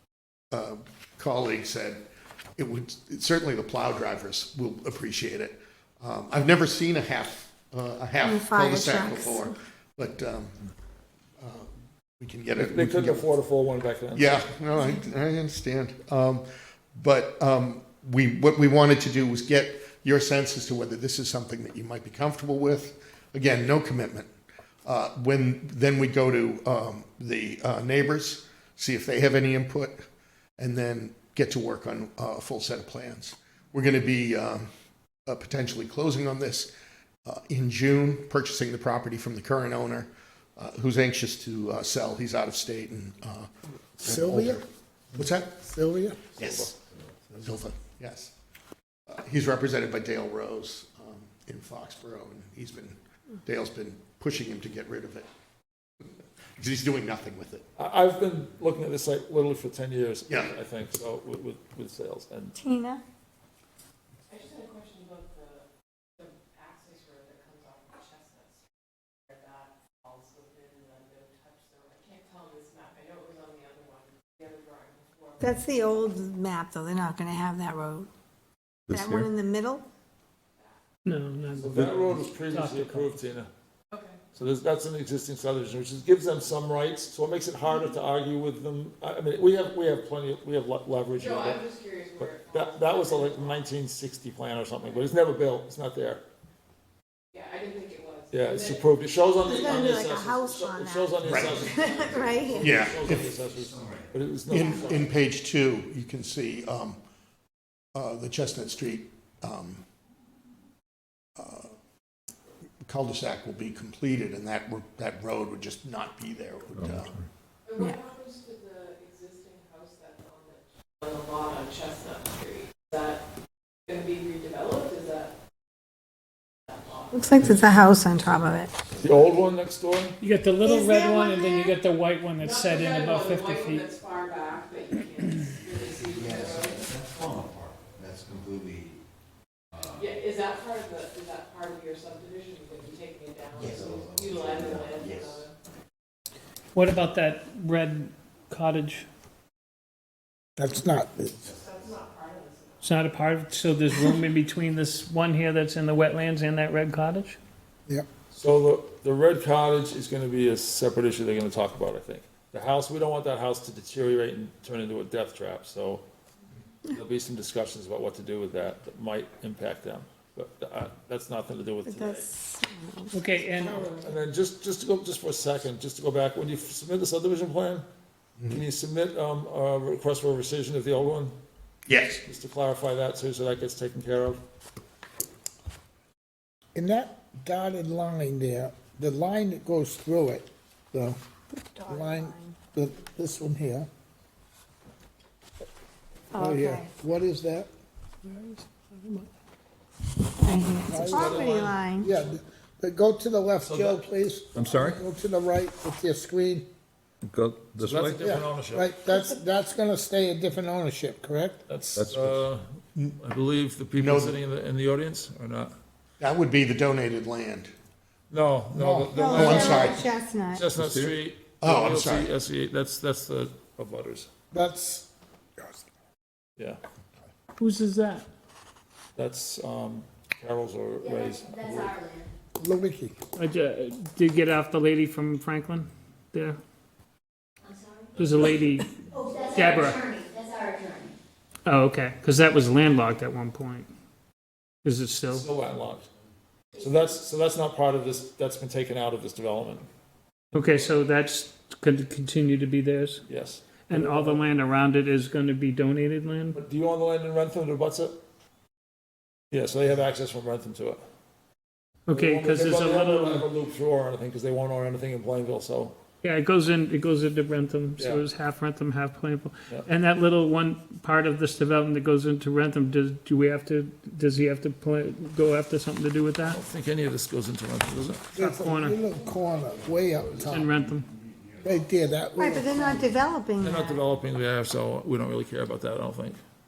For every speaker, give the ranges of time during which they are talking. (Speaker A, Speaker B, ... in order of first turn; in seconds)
Speaker A: 0.5-2.0, 2.6-10.6, 11.4-11.7, 12.2-13.3, 14.1-24.3, 24.8-30.0, 30.6-34.7, 35.2-36.7, 37.2-45.6, 46.4-46.7, 47.4-48.3, 49.1-55.3, 56.6-57.6, 60.3-60.5, 101.2-101.7, 102.5-103.3, 104.5-107.0, 107.9-109.8, 111.4-111.7, 112.8-117.1, 178.4-178.6, 181.9-182.2, 213.9-214.4, 216.2-217.7, 219.3-220.1, 221.6-222.3
Speaker B: 8.2-9.5, 62.6-63.0, 75.4-78.1, 78.9-79.8, 99.4-102.9, 127.1-128.7, 130.6-131.7, 171.8-174.1, 191.5-192.6, 196.3-196.9, 200.4-202.1, 219.1-220.7, 282.4-284.0
Speaker C: 12.6-14.5, 46.4-46.7, 57.8-62.6, 81.5-83.5, 84.3-91.6, 92.2-96.2, 98.3-105.1, 129.0-130.2, 158.3-166.0, 166.9-172.3, 174.0-177.8, 178.5-181.3, 182.2-184.4, 200.9-202.3, 203.6-204.1, 207.8-208.9, 211.7-212.7, 213.2-215.7, 218.3-224.3, 229.2-232.0, 245.3-246.1, 246.8-249.9, 250.5-250.9, 253.3-254.4, 256.5-258.2, 259.5-261.0, 262.1-265.9, 268.0-268.2, 276.4-278.3, 283.6-286.4
Speaker D: 44.0-44.6, 45.5-46.2, 150.6-151.5, 186.7-191.2, 191.9-193.9, 196.3-197.7, 200.9-201.4, 202.0-206.7, 208.2-211.6, 218.7-219.1, 224.5-225.9, 232.6-233.2, 278.3-280.7, 281.6-283.1
Speaker E: 64.3-68.6, 69.3-76.0, 83.9-84.2, 91.2-93.7, 97.3-98.8, 101.6-102.1, 117.7-123.2, 123.9-125.3, 126.7-127.4, 132.4-136.9, 139.9-145.5, 151.5-152.9
Speaker F: 78.9-79.3, 204.5-205.0, 207.2-208.4, 211.9-212.5, 220.7-221.2
Speaker G: 81.0-83.2, 130.2-133.8, 146.7-149.1, 152.8-157.4, 173.1-173.8, 198.2-199.3, 227.6-228.3, 233.3-236.6, 238.2-240.1, 241.6-243.9, 244.8-245.4, 250.5-253.2, 253.9-256.6, 262.1-263.5, 266.2-276.6, 278.3-279.0, 280.4-281.1
Speaker H: 103.4-104.1, 136.0-138.9, 139.7-140.0, 143.5-145.5
Speaker I: 231.0-232.3, 237.6-238.1, 239.1-241.1